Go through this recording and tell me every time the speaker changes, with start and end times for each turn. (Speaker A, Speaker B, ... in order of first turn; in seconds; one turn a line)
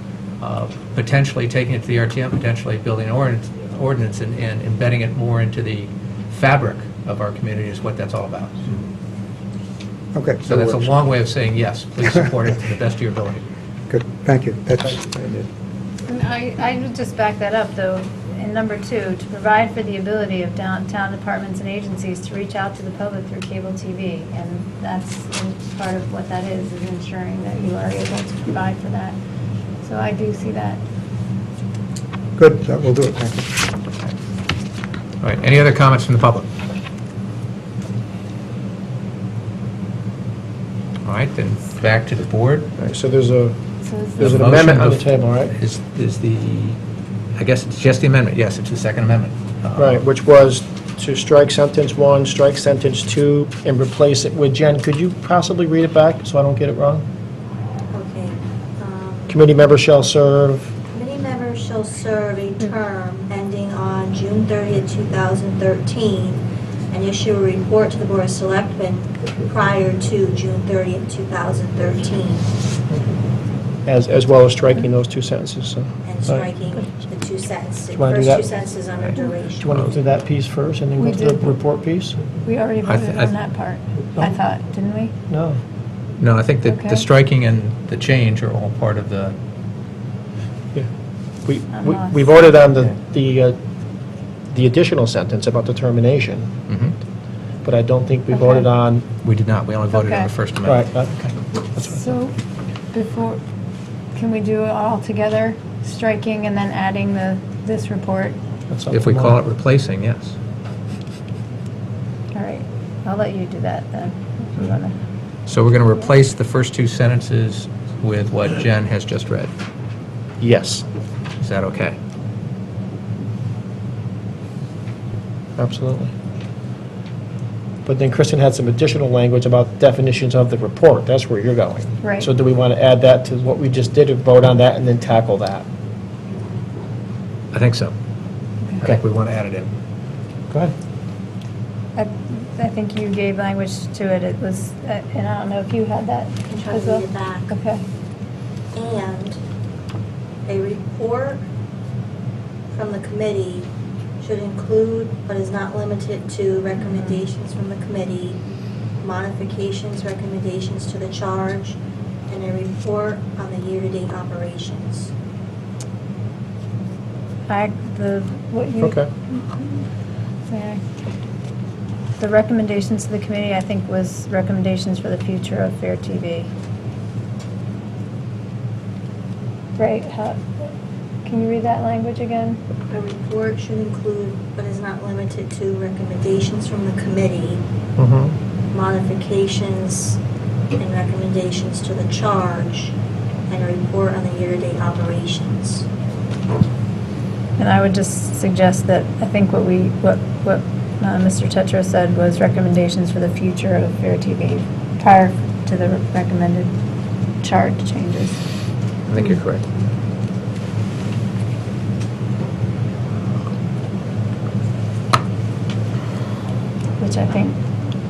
Speaker A: 0.4-8.7
Speaker B: 10.1-10.9
Speaker A: 10.4-13.4
Speaker B: 13.9-15.1
Speaker A: 15.2-15.4
Speaker C: 16.1-29.2
Speaker C: 29.8-30.8
Speaker B: 32.4-33.4
Speaker A: 35.2-36.5
Speaker A: 41.0-42.7
Speaker D: 42.8-43.5
Speaker C: 43.8-44.1
Speaker D: 44.2-45.5
Speaker A: 44.2-46.8
Speaker A: 47.4-50.0
Speaker D: 49.8-57.0
Speaker E: 57.9-59.4
Speaker D: 59.3-60.7
Speaker E: 60.9-72.5
Speaker D: 73.8-76.5
Speaker E: 76.0-79.7
Speaker D: 77.9-78.5
Speaker D: 79.6-82.2
Speaker C: 81.0-81.5
Speaker C: 82.3-85.1
Speaker A: 82.8-83.3
Speaker D: 85.3-85.6
Speaker A: 86.2-89.3
Speaker C: 86.7-87.0
Speaker D: 91.5-93.6
Speaker C: 91.7-92.3
Speaker D: 94.5-96.5
Speaker A: 96.7-96.9
Speaker D: 97.6-99.0
Speaker C: 98.3-98.6
Speaker A: 99.2-101.3
Speaker C: 99.9-100.3
Speaker D: 100.7-101.2
Speaker C: 101.8-102.3
Speaker C: 102.9-103.4
Speaker C: 104.1-108.4
Speaker D: 108.7-109.4
Speaker A: 108.9-110.4
Speaker C: 112.3-115.0
Speaker A: 115.5-119.5
Speaker D: 120.4-120.8
Speaker A: 121.4-122.0
Speaker D: 125.6-126.1
Speaker D: 127.8-135.7
Speaker C: 132.0-132.3
Speaker A: 137.5-137.9
Speaker A: 138.8-139.7
Speaker C: 141.9-147.8
Speaker E: 146.5-147.5
Speaker E: 148.7-149.4
Speaker E: 150.5-151.4
Speaker E: 152.7-153.7
Speaker E: 154.2-158.4
Speaker E: 159.0-161.8
Speaker E: 162.3-165.1
Speaker C: 167.5-169.8
Speaker D: 168.8-169.1
Speaker C: 170.5-170.8
Speaker C: 172.2-176.5
Speaker C: 179.8-180.4
Speaker C: 181.2-182.6
Speaker E: 182.9-187.6
Speaker A: 188.0-188.3
Speaker E: 188.7-190.2
Speaker E: 190.8-192.9
Speaker E: 193.5-195.8
Speaker C: 197.6-206.7
Speaker C: 207.4-208.4
Speaker A: 209.1-209.6
Speaker C: 217.0-217.6